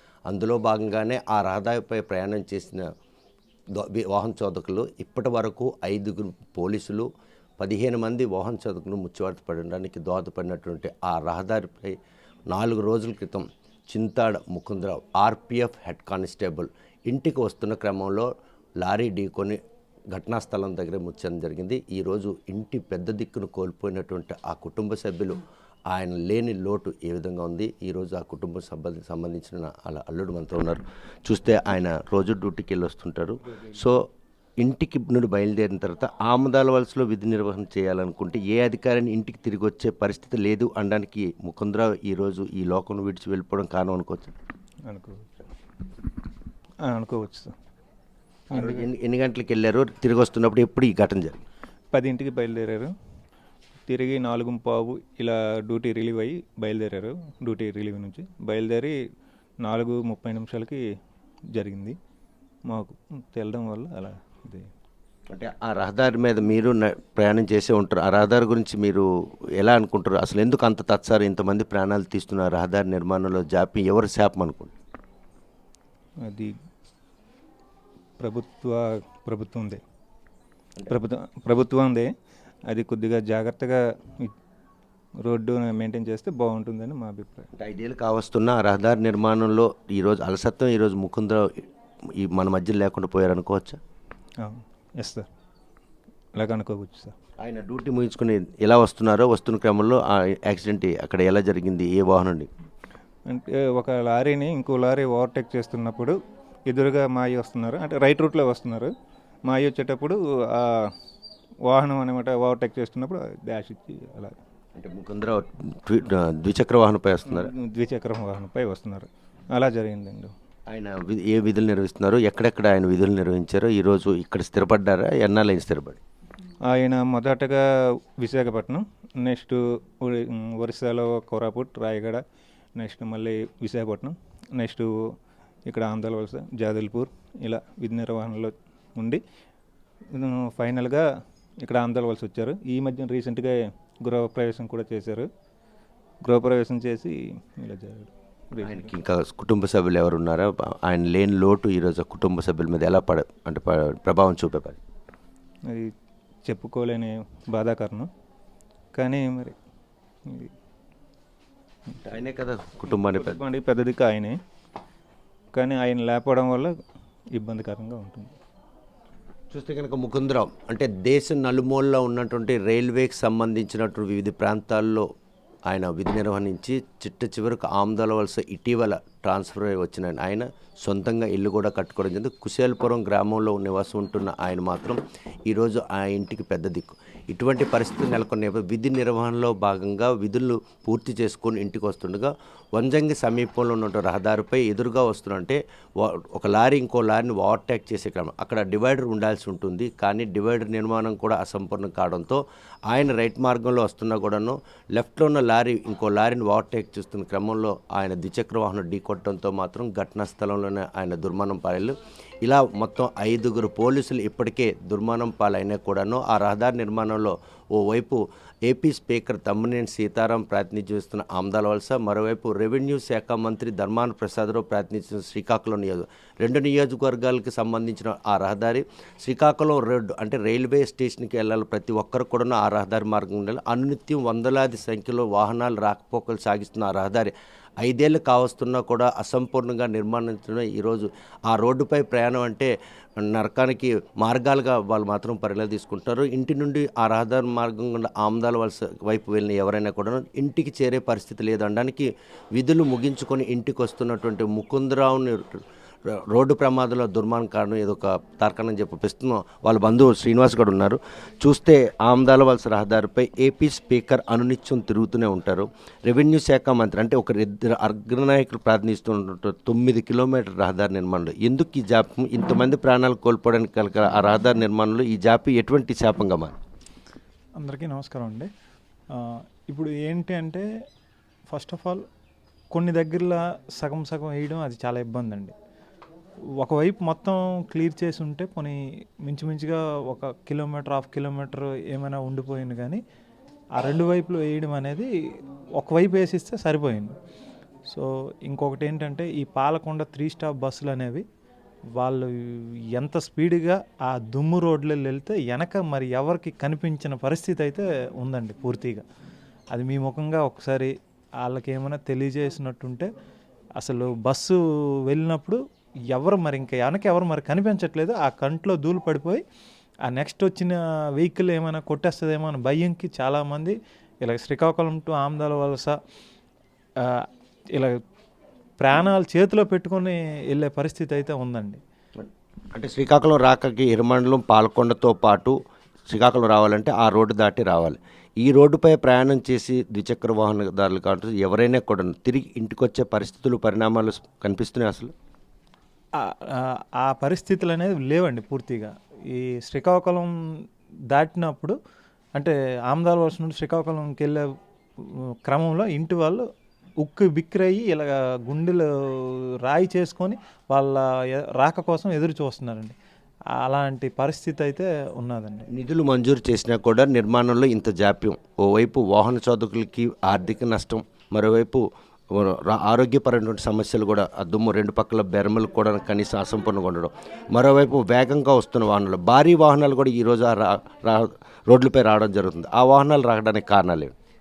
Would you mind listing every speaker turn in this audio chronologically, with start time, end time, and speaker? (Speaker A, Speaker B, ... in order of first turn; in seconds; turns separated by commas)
Speaker A: 0.3-2.9, Speaker A: 3.7-7.1, Speaker A: 7.6-12.0, Speaker A: 12.5-18.3, Speaker A: 18.8-19.6, Speaker A: 20.1-25.4, Speaker A: 25.9-34.0, Speaker A: 34.6-44.3, Speaker B: 44.8-45.3, Speaker B: 46.9-47.5, Speaker B: 48.5-48.8, Speaker A: 48.5-51.4, Speaker B: 51.9-52.9, Speaker B: 53.9-58.9, Speaker B: 59.6-60.8, Speaker B: 61.5-62.0, Speaker B: 62.7-64.7, Speaker A: 65.3-69.1, Speaker A: 69.6-74.7, Speaker B: 76.2-76.5, Speaker B: 78.2-79.8, Speaker B: 80.9-82.1, Speaker B: 82.7-84.3, Speaker B: 85.2-87.5, Speaker A: 87.5-91.5, Speaker A: 92.2-93.8, Speaker B: 94.4-95.3, Speaker B: 96.4-97.1, Speaker A: 97.4-102.5, Speaker B: 103.3-106.1, Speaker B: 106.7-108.9, Speaker B: 109.5-110.9, Speaker B: 111.7-114.3, Speaker A: 114.8-117.5, Speaker B: 117.3-120.3, Speaker A: 120.7-126.0, Speaker B: 126.7-127.6, Speaker B: 128.2-132.2, Speaker B: 132.8-134.9, Speaker B: 135.7-139.2, Speaker B: 140.1-141.0, Speaker B: 141.6-145.3, Speaker B: 146.2-148.9, Speaker A: 148.6-154.8, Speaker B: 156.4-158.1, Speaker B: 158.9-159.6, Speaker A: 162.0-163.4, Speaker B: 163.0-164.4, Speaker B: 165.5-166.7, Speaker B: 167.3-168.3, Speaker A: 169.5-175.1, Speaker A: 175.7-242.7, Speaker A: 243.2-276.6, Speaker C: 277.6-278.5, Speaker C: 279.1-280.6, Speaker C: 281.5-282.0, Speaker C: 282.7-285.5, Speaker C: 286.6-293.0, Speaker C: 293.8-295.1, Speaker C: 295.8-297.1, Speaker C: 297.9-301.2, Speaker C: 302.0-309.0, Speaker C: 309.7-313.1, Speaker C: 313.8-315.6, Speaker C: 316.1-319.4, Speaker C: 320.1-325.9, Speaker C: 327.0-328.0, Speaker C: 328.8-331.8, Speaker A: 332.2-335.6, Speaker A: 336.1-345.1, Speaker C: 346.2-350.3, Speaker C: 351.1-351.7, Speaker C: 352.4-354.4, Speaker C: 355.4-356.4, Speaker C: 357.0-362.9, Speaker C: 363.6-365.7, Speaker A: 365.7-384.1